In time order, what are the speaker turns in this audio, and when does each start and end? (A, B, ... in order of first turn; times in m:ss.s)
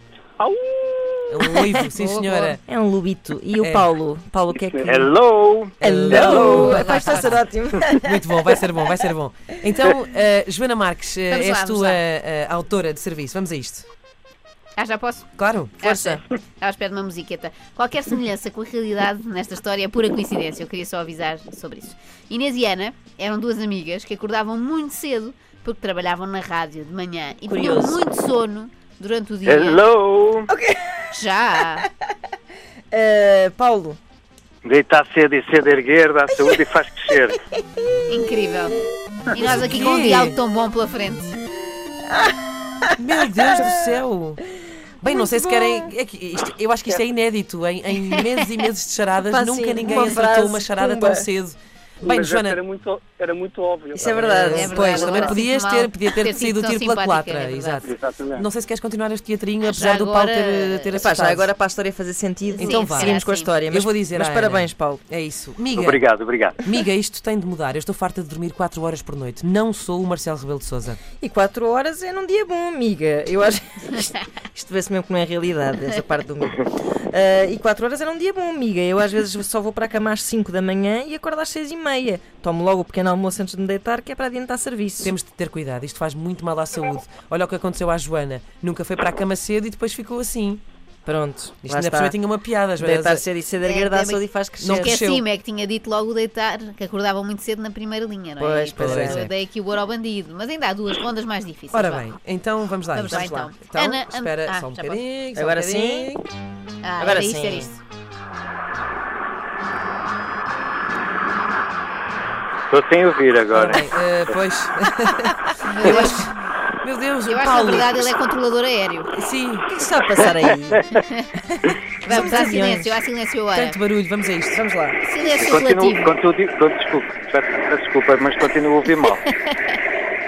0:00.4-0:01.5 A
0:01.3-0:02.6 B
0:01.5-0:05.1 C
0:03.6-0:03.9 B
0:04.6-0:05.0 A
0:04.9-0:06.8 D
0:05.8-0:13.9 B
0:05.8-0:08.5 C
0:06.3-0:07.4 E
0:11.3-0:12.0 E
0:14.8-0:15.3 E
0:15.4-0:16.2 B
0:15.8-0:29.9 E
0:27.5-0:28.0 C
0:29.5-0:30.5 D
0:30.5-0:31.1 C
0:31.1-0:31.9 E
0:32.9-0:34.0 C
0:34.6-0:37.4 D
0:36.3-0:37.6 C
0:38.1-0:38.8 E
0:39.3-0:41.4 E
0:39.4-0:40.4 B
0:42.1-0:44.0 C
0:43.0-0:44.4 B
0:45.0-0:52.6 B
0:45.0-0:45.9 C
0:49.3-0:51.3 C
0:52.0-0:54.3 A
0:53.9-0:55.4 C
0:54.0-1:01.5 B
0:54.5-0:57.9 E
0:57.8-0:58.5 A
0:59.7-1:01.0 E
1:00.9-1:05.0 C
1:02.6-1:06.0 B
1:02.6-1:03.5 E
1:05.8-1:06.6 D
1:06.6-1:11.0 B
1:11.2-1:25.1 C
1:25.0-1:30.6 B
1:31.1-1:32.2 C
1:31.6-1:33.2 B
1:32.8-1:35.0 C
1:33.6-1:34.2 E
1:34.6-1:35.2 B
1:34.8-1:42.1 E
1:38.4-1:39.3 C
1:38.8-1:39.3 B
1:41.7-1:46.2 B
1:42.9-1:45.0 E
1:43.1-1:43.5 C
1:45.4-1:46.1 C
1:46.8-1:47.8 E
1:47.0-1:47.7 C
1:52.7-1:53.9 D
1:53.5-1:58.1 B
1:55.6-1:56.3 E
1:57.3-1:59.1 E
1:59.1-1:59.7 B
1:59.7-2:00.8 C
2:01.0-2:01.2 E
2:01.4-2:03.0 C
2:02.0-2:03.8 E
2:03.5-2:04.6 B
2:04.5-2:05.0 C
2:05.0-2:06.2 E
2:05.2-2:09.2 D
2:09.2-2:09.8 E